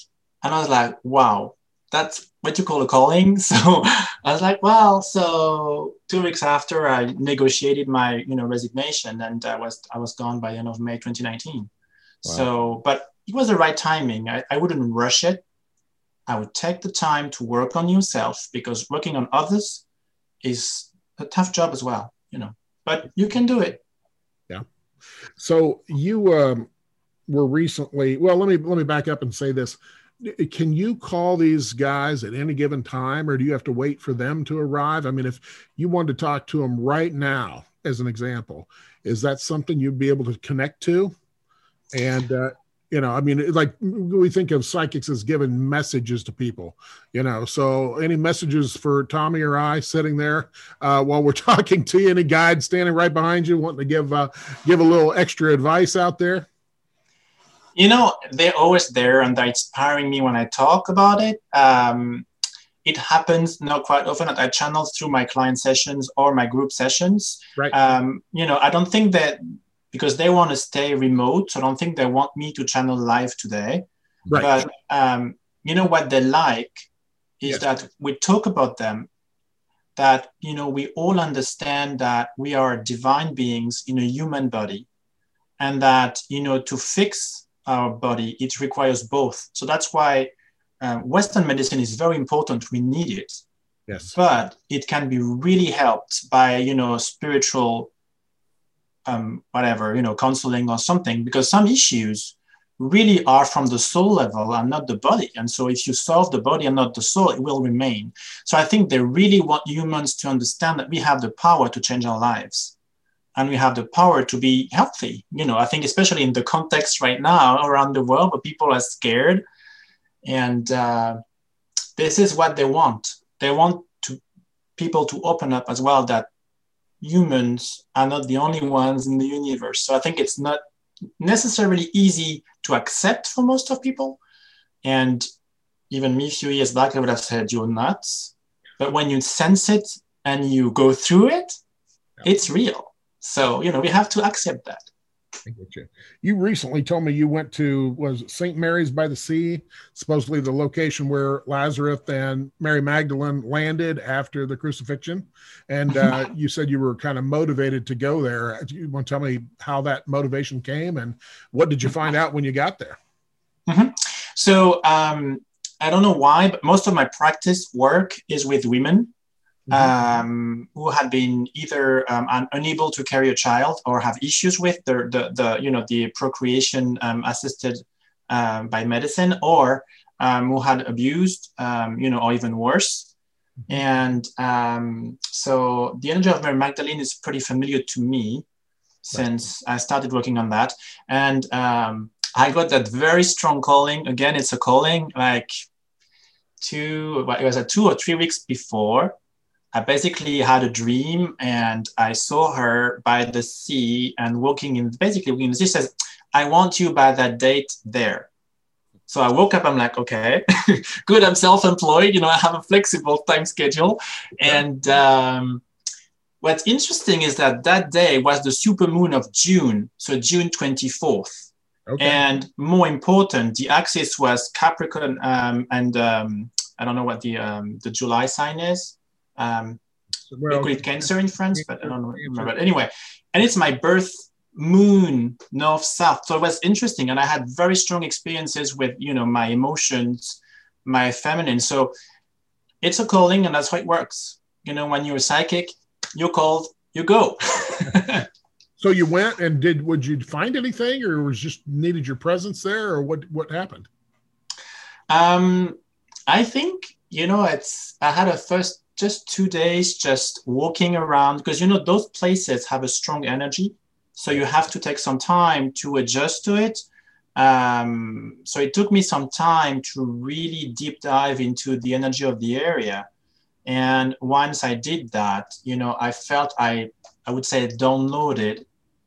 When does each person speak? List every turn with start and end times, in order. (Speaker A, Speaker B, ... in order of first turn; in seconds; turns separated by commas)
Speaker A: 0.4-11.7, Speaker A: 12.2-15.4, Speaker A: 16.3-19.8, Speaker A: 20.4-23.8, Speaker B: 25.4-26.7, Speaker B: 27.3-41.1, Speaker B: 41.9-56.5, Speaker A: 57.7-62.2, Speaker A: 62.8-76.9, Speaker A: 77.4-79.1, Speaker A: 80.0-84.9, Speaker A: 85.6-93.4, Speaker B: 93.9-94.1, Speaker A: 94.1-97.9, Speaker A: 99.0-112.7, Speaker A: 113.3-119.4, Speaker A: 120.2-121.2, Speaker A: 122.0-124.2, Speaker A: 124.8-126.3, Speaker A: 127.0-130.6, Speaker A: 131.2-134.2, Speaker A: 134.8-135.3, Speaker A: 135.9-141.6, Speaker A: 142.2-144.9, Speaker B: 145.4-163.0, Speaker A: 163.7-169.1, Speaker A: 169.7-183.1, Speaker A: 183.7-188.4, Speaker A: 189.0-195.5, Speaker A: 196.6-199.2, Speaker A: 199.7-208.3, Speaker A: 209.1-215.6, Speaker A: 216.4-229.8, Speaker B: 221.9-222.2, Speaker B: 230.3-232.5, Speaker A: 230.5-241.9, Speaker A: 242.8-248.3, Speaker B: 248.8-253.9, Speaker A: 255.1-255.8, Speaker A: 256.3-266.8, Speaker A: 267.4-273.1, Speaker A: 273.6-278.6